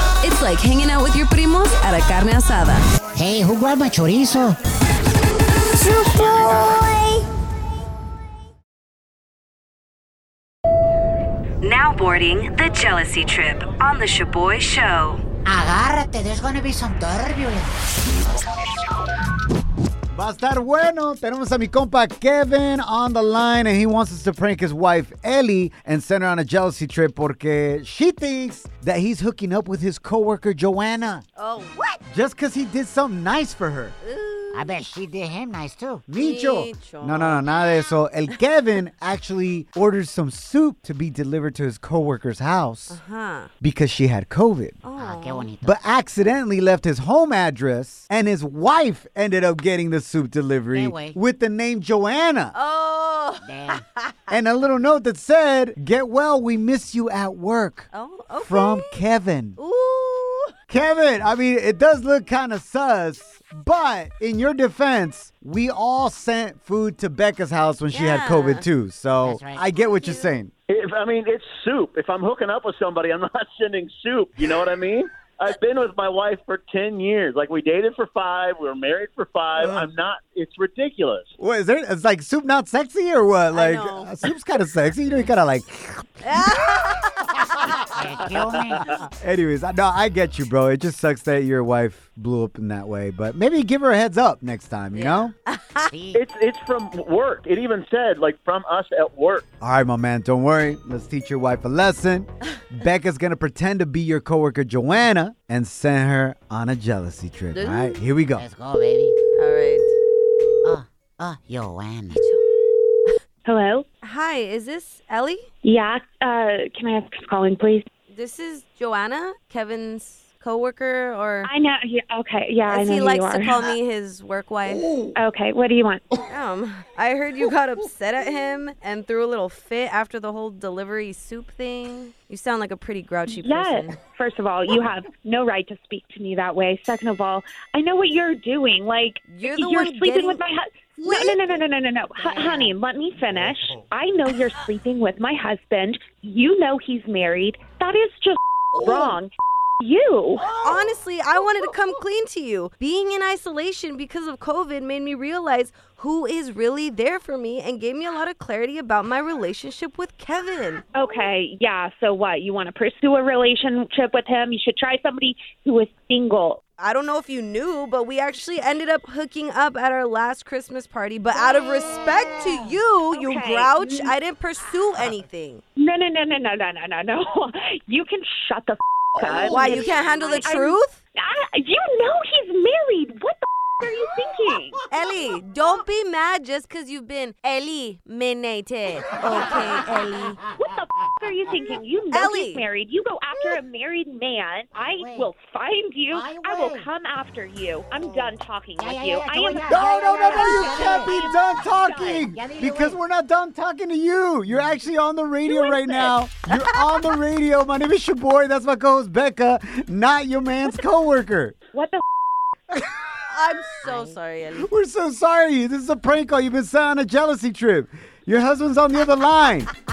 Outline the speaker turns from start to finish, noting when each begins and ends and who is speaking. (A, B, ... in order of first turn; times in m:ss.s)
0:00.2-0:02.9 A
0:03.2-0:04.6 B
0:11.6-0:15.2 C
0:15.4-0:17.7 B
0:20.1-0:31.2 D
0:31.4-0:32.0 A
0:32.1-0:34.0 D
0:34.0-0:34.7 A
0:34.5-0:36.0 B
0:36.1-0:43.0 D
0:36.2-0:37.4 A
0:42.9-0:43.5 A
0:43.6-0:44.8 D
0:44.8-0:45.5 A
0:45.0-0:45.8 B
0:45.6-0:52.6 D
0:50.7-0:51.2 B
0:52.5-0:54.2 A
0:53.4-0:53.8 B
0:54.3-0:59.6 D
0:57.9-0:59.0 A
0:59.6-1:00.5 A
1:00.7-1:10.5 D
1:07.9-1:08.6 A
1:09.2-1:09.6 B
1:09.8-1:10.3 A
1:10.7-1:21.3 E
1:19.6-1:19.9 D
1:21.4-1:26.4 D
1:23.5-1:24.1 A
1:26.2-1:27.4 A
1:27.8-1:28.9 B
1:28.8-1:29.0 A
1:29.2-1:35.3 D
1:35.0-1:35.9 A
1:35.9-1:36.2 B
1:36.1-1:39.4 E
1:39.6-1:48.4 D
1:47.5-1:48.0 A
1:48.4-1:49.2 B
1:49.4-1:49.9 A
1:50.6-1:52.2 B
1:52.1-1:52.4 A
1:53.4-1:53.8 F
1:54.0-1:55.4 A
1:55.6-1:57.9 F
1:58.1-2:01.5 A
2:01.4-2:03.6 F
2:02.7-2:04.9 A
2:05.2-2:06.2 F
2:06.3-2:14.0 A
2:13.3-2:29.3 F
2:19.3-2:20.4 A
2:28.8-2:29.2 D
2:29.8-2:30.5 F
2:30.4-2:30.9 D
2:30.6-2:40.8 A
2:40.9-2:46.6 F
2:46.8-2:55.6 A
2:53.1-2:54.1 F
2:55.8-3:04.8 F
2:59.2-2:59.9 D
2:59.5-3:01.0 A
3:04.9-3:10.4 A
3:09.5-3:10.0 F
3:10.6-3:21.0 F
3:12.1-3:12.6 A
3:14.7-3:15.3 B
3:16.1-3:16.9 B
3:18.8-3:23.0 B
3:19.7-3:31.6 D
3:25.5-3:26.5 A
3:31.7-3:32.0 F
3:33.3-3:34.7 A
3:33.8-3:34.2 B
3:34.6-3:39.7 D